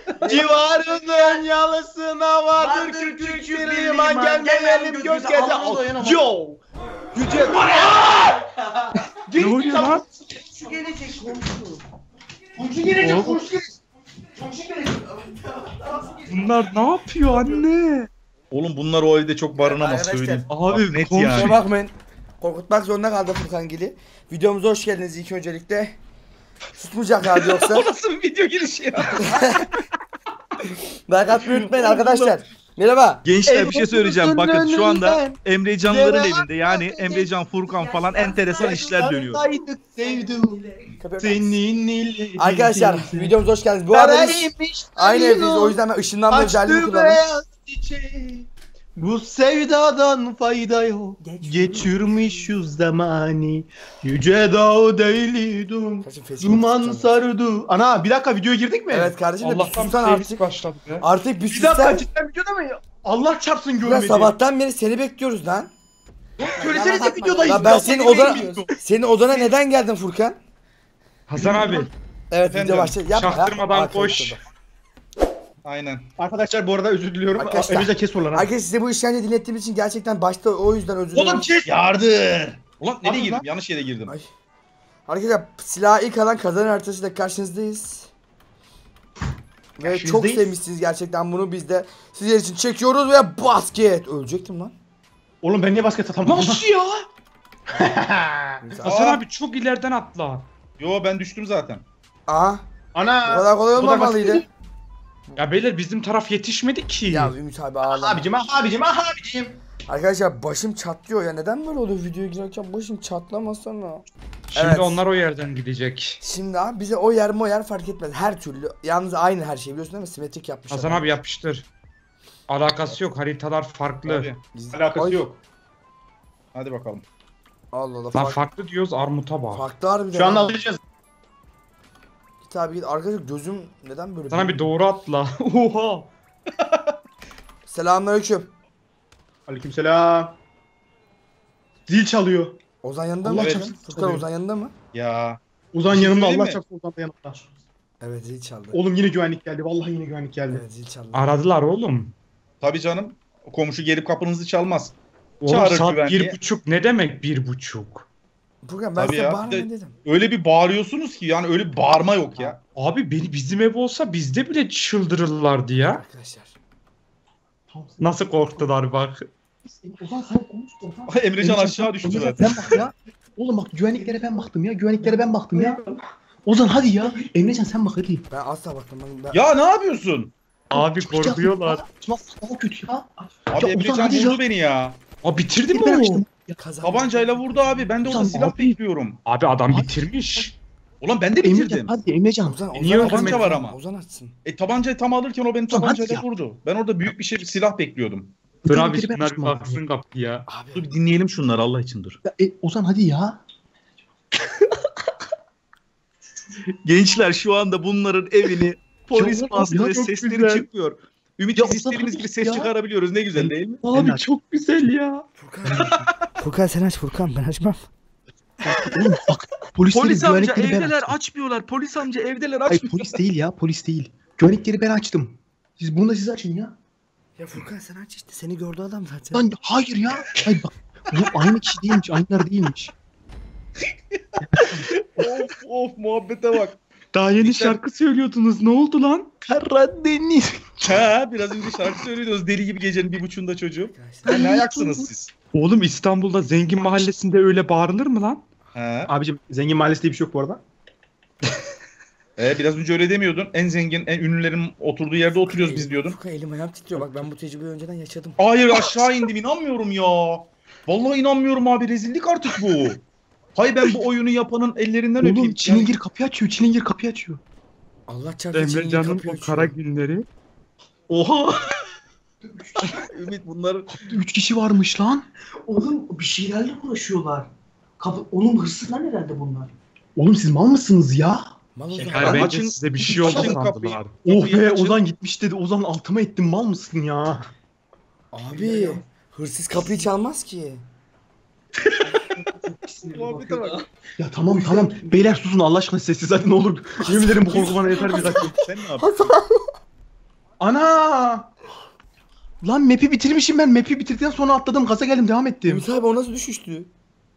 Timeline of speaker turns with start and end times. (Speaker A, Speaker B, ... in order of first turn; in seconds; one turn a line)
Speaker A: 0.2-1.5
Speaker B: 0.2-6.6
Speaker A: 2.5-6.2
Speaker B: 7.1-8.1
Speaker A: 7.2-8.4
Speaker B: 9.3-10.1
Speaker C: 9.3-10.0
Speaker A: 9.6-11.8
Speaker B: 12.6-13.8
Speaker C: 13.0-13.4
Speaker D: 15.6-16.1
Speaker C: 16.2-18.1
Speaker E: 18.5-21.6
Speaker D: 19.6-20.5
Speaker C: 20.5-21.6
Speaker D: 21.3-26.0
Speaker D: 26.8-27.9
Speaker E: 27.2-29.6
Speaker D: 29.2-29.7
Speaker D: 31.1-33.2
Speaker E: 31.3-32.4
Speaker E: 33.2-39.4
Speaker B: 33.5-36.5
Speaker A: 36.6-40.9
Speaker B: 38.5-40.6
Speaker D: 41.0-41.6
Speaker B: 41.2-43.3
Speaker D: 42.4-47.2
Speaker B: 43.9-45.8
Speaker B: 46.3-59.2
Speaker A: 51.2-52.5
Speaker D: 56.0-57.1
Speaker D: 58.9-60.5
Speaker C: 59.4-61.0
Speaker D: 61.0-62.1
Speaker B: 61.5-64.4
Speaker D: 63.8-65.7
Speaker B: 66.4-68.5
Speaker D: 66.6-70.4
Speaker E: 67.6-68.7
Speaker C: 71.3-71.9
Speaker E: 71.4-71.8
Speaker D: 72.3-74.4
Speaker E: 72.5-73.0
Speaker C: 73.1-74.4
Speaker E: 75.6-76.1
Speaker B: 76.2-78.5
Speaker D: 77.4-81.5
Speaker B: 81.1-81.7
Speaker E: 81.6-84.1
Speaker B: 83.0-83.4
Speaker D: 85.1-88.1
Speaker D: 89.8-94.8
Speaker B: 89.8-90.5
Speaker B: 95.4-96.7
Speaker C: 96.2-97.1
Speaker B: 97.8-98.6
Speaker D: 98.6-99.0
Speaker C: 98.8-100.5
Speaker E: 98.8-99.2
Speaker E: 100.8-101.8
Speaker D: 102.3-102.7
Speaker B: 102.9-104.5
Speaker D: 103.2-104.4
Speaker C: 105.4-107.3
Speaker D: 107.0-108.2
Speaker B: 107.9-109.6
Speaker D: 109.9-115.0
Speaker C: 114.5-116.2
Speaker D: 116.2-121.2
Speaker C: 120.7-121.7
Speaker C: 122.5-124.3
Speaker E: 124.0-124.4
Speaker D: 124.5-125.3
Speaker B: 124.7-125.4
Speaker E: 126.5-127.0
Speaker D: 127.7-128.4
Speaker C: 128.1-129.6
Speaker D: 129.5-130.6
Speaker B: 130.1-130.8
Speaker D: 132.4-134.7
Speaker C: 134.3-136.1
Speaker E: 136.6-136.9
Speaker D: 137.7-138.5
Speaker B: 139.5-140.4
Speaker B: 141.9-142.6
Speaker D: 142.8-144.7
Speaker B: 143.2-144.2
Speaker E: 143.4-143.7
Speaker E: 144.9-146.6
Speaker B: 145.7-147.4
Speaker D: 148.0-148.8
Speaker B: 148.7-150.6
Speaker D: 150.5-151.3
Speaker C: 151.1-152.1
Speaker E: 152.6-154.9
Speaker C: 155.4-158.1
Speaker E: 155.5-156.4
Speaker D: 158.6-159.9
Speaker E: 158.9-162.6
Speaker C: 162.8-166.0
Speaker D: 165.9-166.6
Speaker B: 167.7-168.6
Speaker C: 168.0-169.3
Speaker B: 169.8-175.8
Speaker E: 171.1-172.8
Speaker A: 175.5-176.0
Speaker B: 176.4-178.2
Speaker D: 178.3-179.4
Speaker E: 179.3-180.3
Speaker C: 180.7-181.8
Speaker B: 180.7-184.4
Speaker E: 183.5-185.0
Speaker C: 185.2-186.2
Speaker B: 185.7-186.6
Speaker D: 186.6-188.2
Speaker E: 186.8-189.2
Speaker B: 188.0-188.6
Speaker C: 188.4-190.6
Speaker B: 189.7-190.4
Speaker E: 191.0-192.0
Speaker B: 191.4-193.5
Speaker D: 192.4-194.3
Speaker C: 192.7-193.3
Speaker E: 193.0-193.8
Speaker E: 194.4-198.4
Speaker B: 195.7-196.2
Speaker B: 198.7-199.8
Speaker C: 198.7-200.4
Speaker D: 200.5-200.9
Speaker E: 200.7-202.2
Speaker B: 202.2-203.4
Speaker E: 206.8-213.8
Speaker B: 209.2-210.1
Speaker C: 209.4-210.6
Speaker B: 211.6-212.7
Speaker B: 213.3-214.2
Speaker C: 213.9-215.2
Speaker D: 215.4-217.8
Speaker B: 215.7-215.9
Speaker B: 218.6-221.1
Speaker E: 219.9-223.2
Speaker B: 222.7-226.7
Speaker D: 227.4-229.4
Speaker B: 229.3-232.9
Speaker B: 234.5-235.3
Speaker E: 235.2-236.8
Speaker C: 237.1-239.3
Speaker E: 237.4-237.8
Speaker B: 239.4-241.1
Speaker E: 240.8-245.3
Speaker D: 243.9-244.4
Speaker B: 244.2-245.1
Speaker C: 245.5-248.4
Speaker E: 248.7-249.1
Speaker B: 249.1-250.6
Speaker E: 252.4-256.2
Speaker D: 255.4-258.4
Speaker E: 258.4-263.0
Speaker E: 263.6-266.0
Speaker B: 265.2-267.4
Speaker D: 268.1-269.8
Speaker C: 268.5-270.2
Speaker B: 271.1-271.8
Speaker E: 272.9-273.9
Speaker B: 274.0-275.2
Speaker A: 275.6-279.7
Speaker B: 280.2-281.5
Speaker D: 281.8-282.5
Speaker A: 282.0-282.4
Speaker E: 282.0-285.0
Speaker C: 282.1-284.1
Speaker B: 283.2-283.5
Speaker B: 284.2-287.5
Speaker D: 288.3-290.8
Speaker A: 288.7-289.0
Speaker A: 292.6-293.9
Speaker E: 293.0-293.8
Speaker B: 294.2-298.6
Speaker A: 294.5-295.0
Speaker D: 297.0-299.7
Speaker E: 298.6-299.3
Speaker B: 300.6-301.5
Speaker B: 302.6-305.9
Speaker D: 305.7-306.9